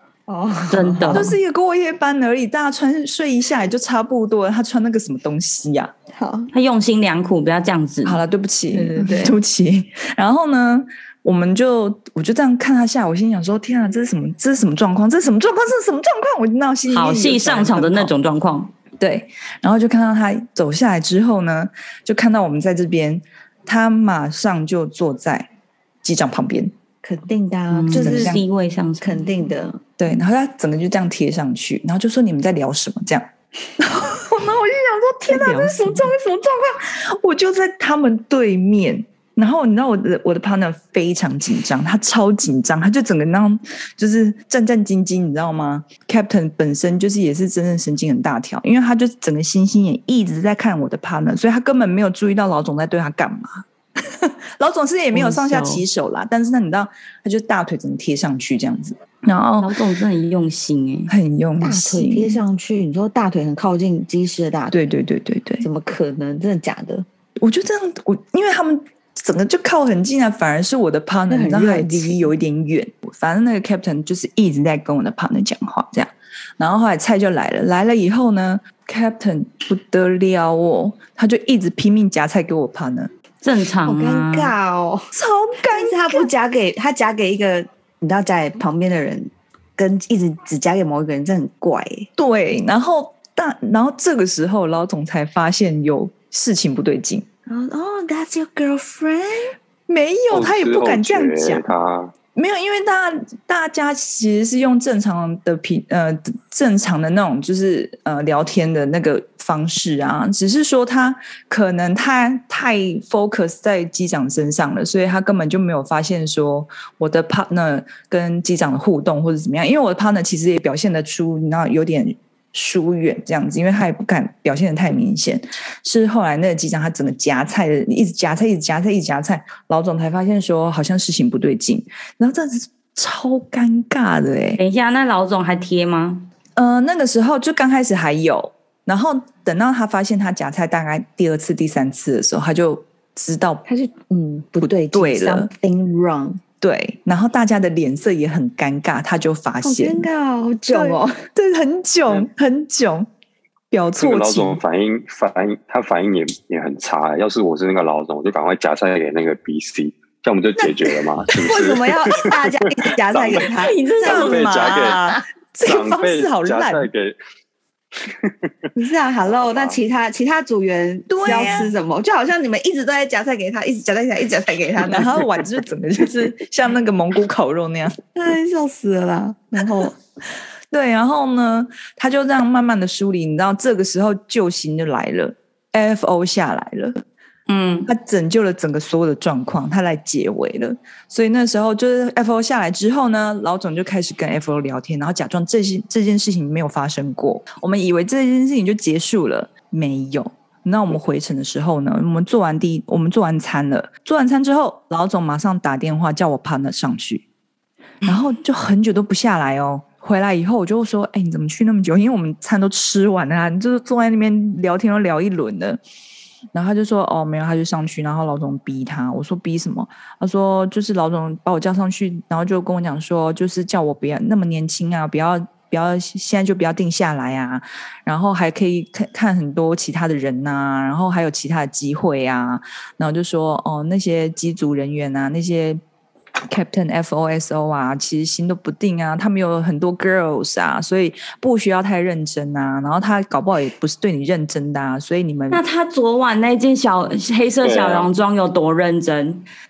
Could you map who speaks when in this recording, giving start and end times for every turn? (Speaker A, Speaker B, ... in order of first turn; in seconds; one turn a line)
Speaker A: 0.3-1.4
Speaker B: 0.7-1.3
Speaker C: 1.1-5.9
Speaker A: 6.1-6.5
Speaker B: 6.5-8.2
Speaker C: 8.0-18.1
Speaker A: 8.7-9.4
Speaker B: 16.9-18.7
Speaker C: 19.0-25.5
Speaker C: 26.0-26.7
Speaker A: 27.0-28.4
Speaker B: 27.7-29.3
Speaker C: 27.9-28.4
Speaker A: 29.0-29.8
Speaker C: 30.0-59.8
Speaker B: 35.3-36.1
Speaker B: 55.1-55.8
Speaker B: 59.6-61.1
Speaker C: 61.1-62.4
Speaker A: 61.6-64.8
Speaker C: 64.7-65.7
Speaker A: 65.6-67.1
Speaker C: 67.4-83.1
Speaker A: 71.3-72.3
Speaker B: 83.4-84.5
Speaker A: 83.9-92.1
Speaker C: 85.1-86.3
Speaker C: 92.2-97.3
Speaker A: 97.5-99.5
Speaker C: 99.9-101.7
Speaker D: 100.3-102.1
Speaker C: 102.3-134.6
Speaker B: 134.6-136.3
Speaker C: 136.6-143.6
Speaker A: 143.7-146.4
Speaker C: 144.6-145.5
Speaker C: 146.6-150.1
Speaker A: 149.6-151.2
Speaker C: 150.7-153.1
Speaker C: 153.7-154.6
Speaker D: 154.0-162.4
Speaker A: 160.6-163.9
Speaker D: 163.1-163.5
Speaker B: 163.5-164.6
Speaker D: 164.0-165.1
Speaker C: 164.0-166.9
Speaker D: 165.6-167.2
Speaker D: 168.0-168.3
Speaker A: 168.8-175.2
Speaker D: 169.2-169.8
Speaker C: 171.1-171.7
Speaker C: 174.8-178.0
Speaker A: 178.2-180.0
Speaker C: 180.7-187.0
Speaker B: 187.5-187.9
Speaker C: 187.9-207.2
Speaker C: 208.0-215.8
Speaker C: 216.5-235.8
Speaker C: 236.5-245.6
Speaker B: 245.5-249.4
Speaker D: 247.6-248.1